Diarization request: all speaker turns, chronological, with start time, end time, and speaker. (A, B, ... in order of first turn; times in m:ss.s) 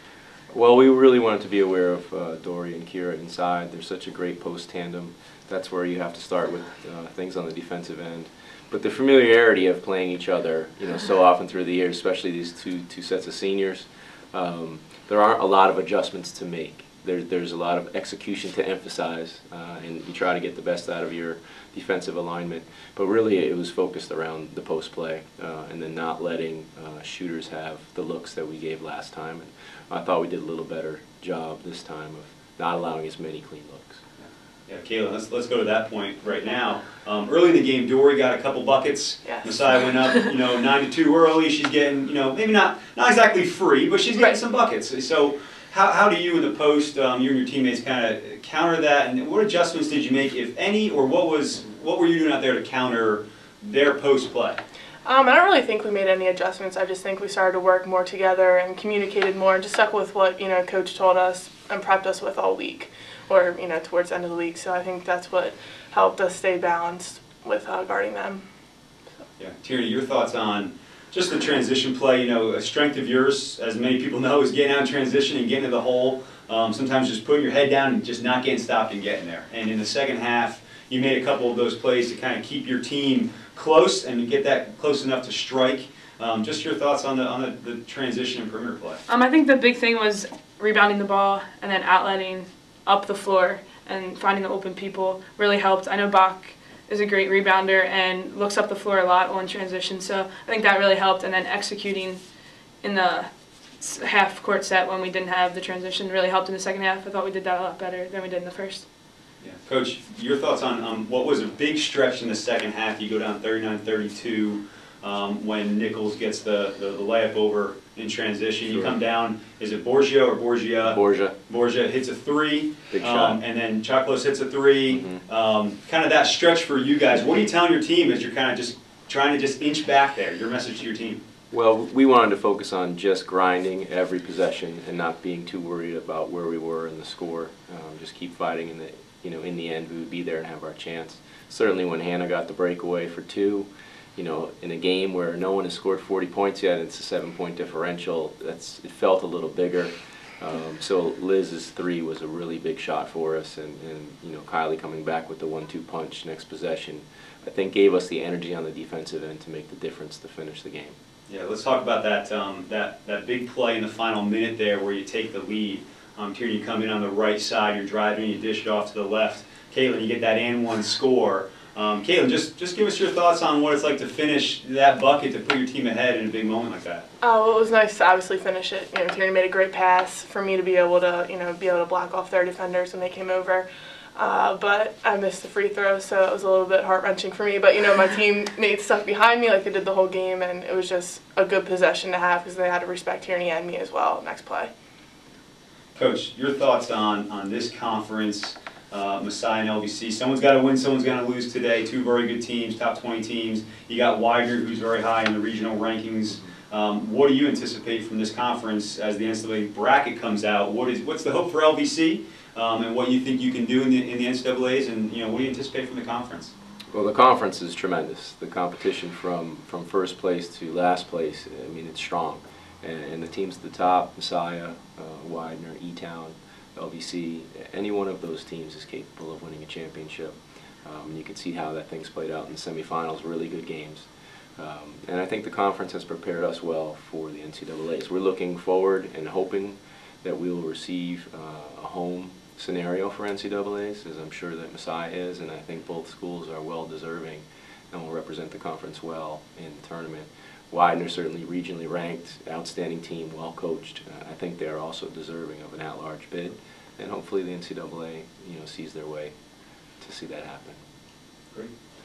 0:00.5-0:34.0 A
0:34.2-0:54.6 B
0:39.3-0:39.5 C
0:55.0-1:08.4 C
1:09.4-1:29.0 B
1:29.1-1:42.2 D
1:42.8-1:48.9 D
1:49.4-2:11.2 B
2:00.8-2:01.4 A
2:02.9-2:03.4 A
2:04.9-2:05.2 A
2:11.5-2:41.0 A
2:41.3-2:57.1 B
2:57.2-3:14.7 C
3:16.0-3:36.5 B
3:36.9-4:19.3 A
4:20.0-4:20.8 A